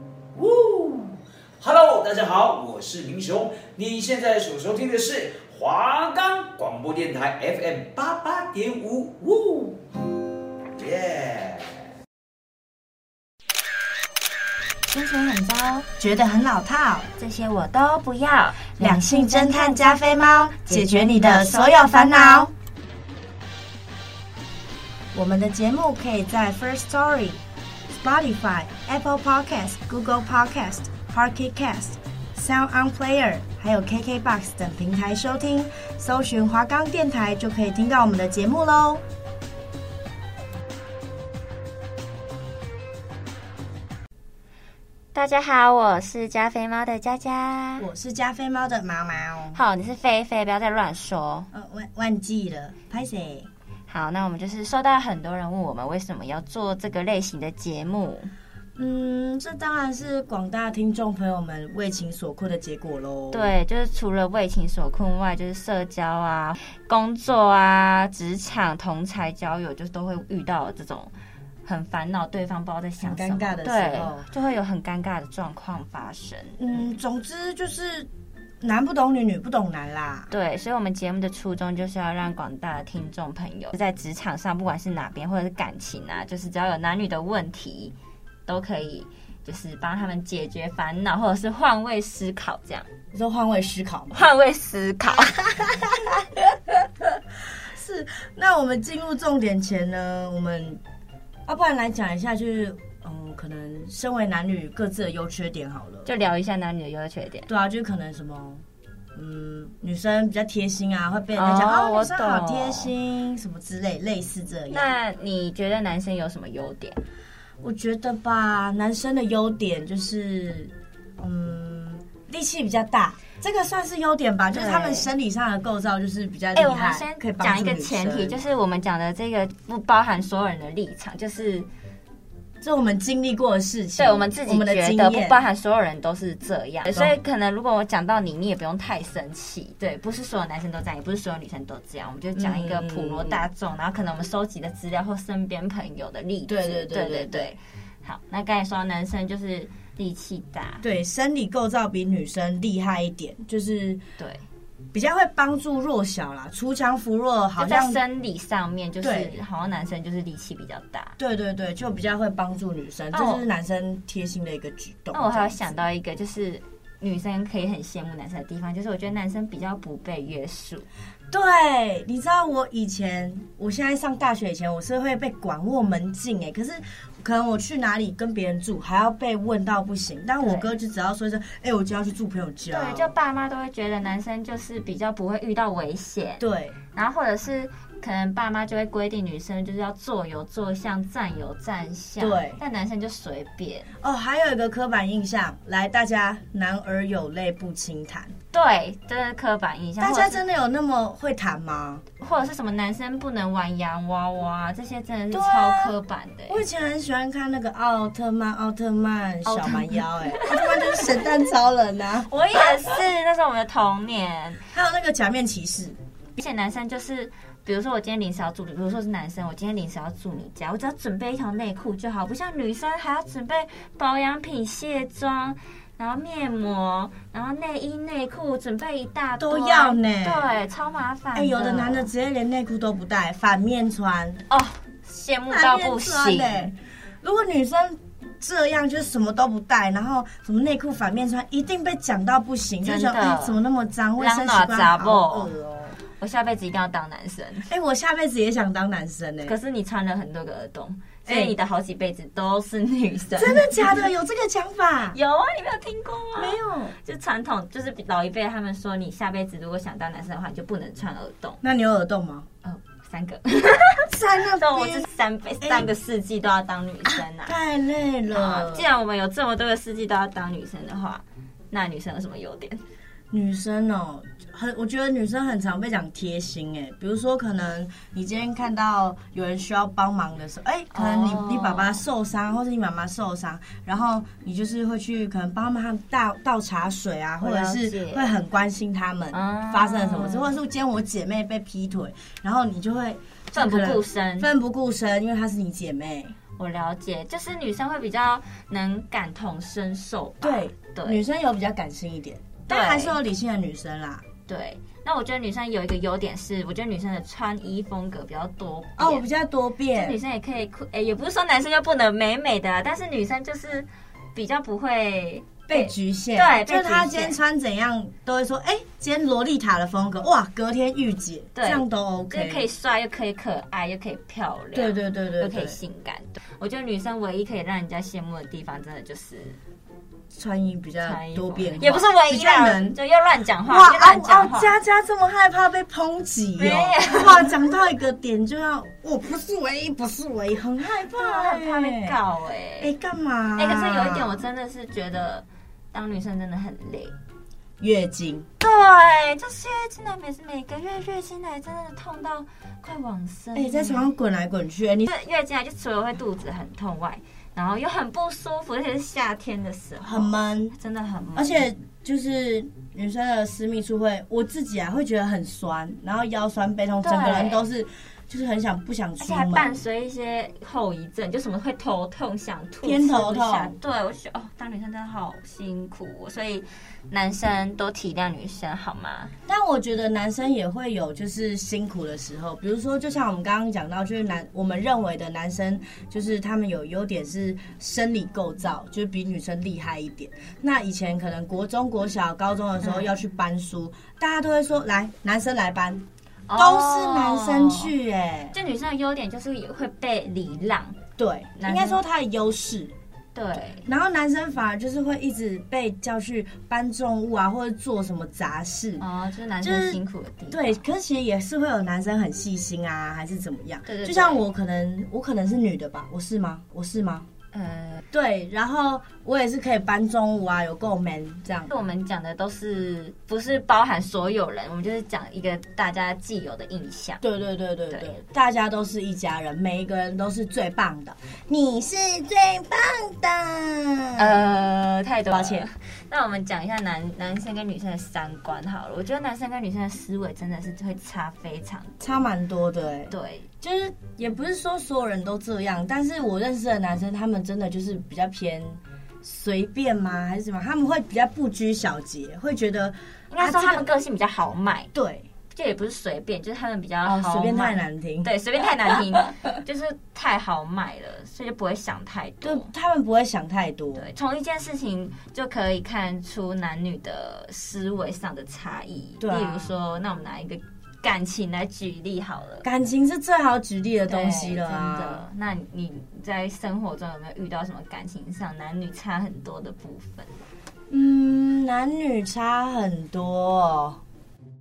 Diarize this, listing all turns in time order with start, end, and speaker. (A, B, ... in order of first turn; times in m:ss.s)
0:00.3-0:09.8 A
0:10.8-0:11.8 A
0:14.9-0:15.9 B
0:16.0-0:17.1 C
0:17.2-0:20.0 B
0:18.8-0:22.5 C
0:20.6-0:22.5 B
0:25.1-0:27.4 C
0:27.9-0:39.0 C
0:45.1-0:47.9 B
0:47.8-0:49.6 C
0:49.5-0:51.5 B
0:51.5-0:53.5 C
0:53.9-0:58.3 B
0:58.8-1:03.5 C
1:03.3-1:11.1 B
1:11.7-1:16.6 B
1:13.0-1:14.3 C
1:16.6-1:18.1 C
1:18.6-1:20.3 C
1:20.3-1:28.0 B
1:28.5-1:32.9 B
1:33.1-1:34.2 C
1:34.1-1:35.8 B
1:35.6-1:40.8 C
1:41.5-1:46.1 C
1:46.1-1:47.5 B
1:47.5-1:55.0 C
1:51.4-1:52.9 B
1:54.7-1:57.0 B
1:57.6-2:08.4 C
2:04.5-2:05.1 B
2:06.5-2:11.7 B
2:12.6-2:15.4 C
2:14.0-2:30.8 B
2:16.8-2:17.2 C
2:22.4-2:23.4 C
2:26.5-2:27.5 C
2:30.8-2:34.0 C
2:34.2-2:34.4 B
2:34.9-2:38.0 C
2:37.6-2:41.2 B
2:39.0-2:39.3 C
2:41.2-2:45.8 C
2:43.1-2:43.4 B
2:45.1-2:50.9 B
2:51.3-3:03.1 C
3:00.4-3:00.7 B
3:02.7-3:13.9 B
3:06.4-3:06.8 C
3:12.2-3:12.6 C
3:14.0-3:18.4 C
3:18.5-3:20.4 B
3:20.0-3:22.1 C
3:22.2-3:26.6 B
3:25.3-3:26.0 C
3:26.5-3:32.8 C
3:29.4-3:31.2 B
3:32.3-3:34.6 B
3:34.7-3:36.0 C
3:36.4-3:52.1 B
3:49.4-3:50.5 C
3:51.3-3:54.4 C
3:54.5-3:56.7 B
3:55.5-4:06.0 C
4:02.8-4:03.6 B
4:04.2-4:05.5 B
4:06.2-4:07.7 B
4:07.7-4:09.6 C
4:09.4-4:14.1 B
4:11.3-4:11.5 C
4:13.4-4:15.2 C
4:15.1-4:21.6 B
4:16.4-4:17.0 C
4:21.6-4:22.5 C
4:22.6-4:27.6 B
4:24.1-4:25.1 C
4:25.6-4:25.9 C
4:27.4-4:28.9 C
4:28.3-4:32.8 B
4:33.3-4:56.4 C
4:40.9-4:42.0 B
4:47.4-4:48.3 B
4:49.3-4:50.6 B
4:53.5-4:54.5 B
4:56.6-5:01.2 B
5:00.4-5:04.3 C
5:02.7-5:03.2 B
5:04.5-5:09.3 B
5:09.0-5:10.2 C
5:09.9-5:17.4 B
5:15.7-5:22.7 C
5:21.6-5:29.6 B
5:24.7-5:25.8 C
5:30.3-5:33.0 C
5:31.0-5:34.7 B
5:33.6-5:42.2 C
5:36.6-5:37.5 B
5:41.1-5:42.9 B
5:42.8-5:44.4 C
5:43.6-5:47.2 B
5:47.8-5:48.5 C
5:48.6-5:54.1 B
5:53.6-5:55.1 C
5:55.0-6:01.7 B
6:00.0-6:00.8 C
6:01.4-6:09.8 C
6:07.0-6:07.7 B
6:09.2-6:19.3 B
6:12.8-6:13.8 C
6:19.5-6:36.0 C
6:32.8-6:33.2 B
6:36.5-6:37.9 B
6:36.6-6:38.5 C
6:38.5-6:41.0 B
6:41.2-6:42.9 C
6:41.6-6:42.0 B
6:43.4-6:43.9 B
6:43.6-6:49.0 C
6:49.0-6:50.8 B
6:49.6-6:57.3 C
6:53.9-6:54.4 B
6:57.5-6:58.0 B
6:58.1-7:01.7 C
7:01.7-7:07.2 B
7:07.2-7:14.4 C
7:07.9-7:08.2 B
7:14.2-7:22.3 B
7:15.3-7:15.6 C
7:22.0-7:33.9 C
7:23.1-7:23.5 B
7:33.3-7:34.9 B
7:34.9-7:35.3 C
7:35.5-7:42.7 B
7:37.0-7:38.3 C
7:42.4-7:44.1 C
7:44.0-7:52.6 B
7:49.2-7:49.7 C
7:52.6-7:55.2 C
7:54.1-8:00.3 B
8:00.9-8:04.0 C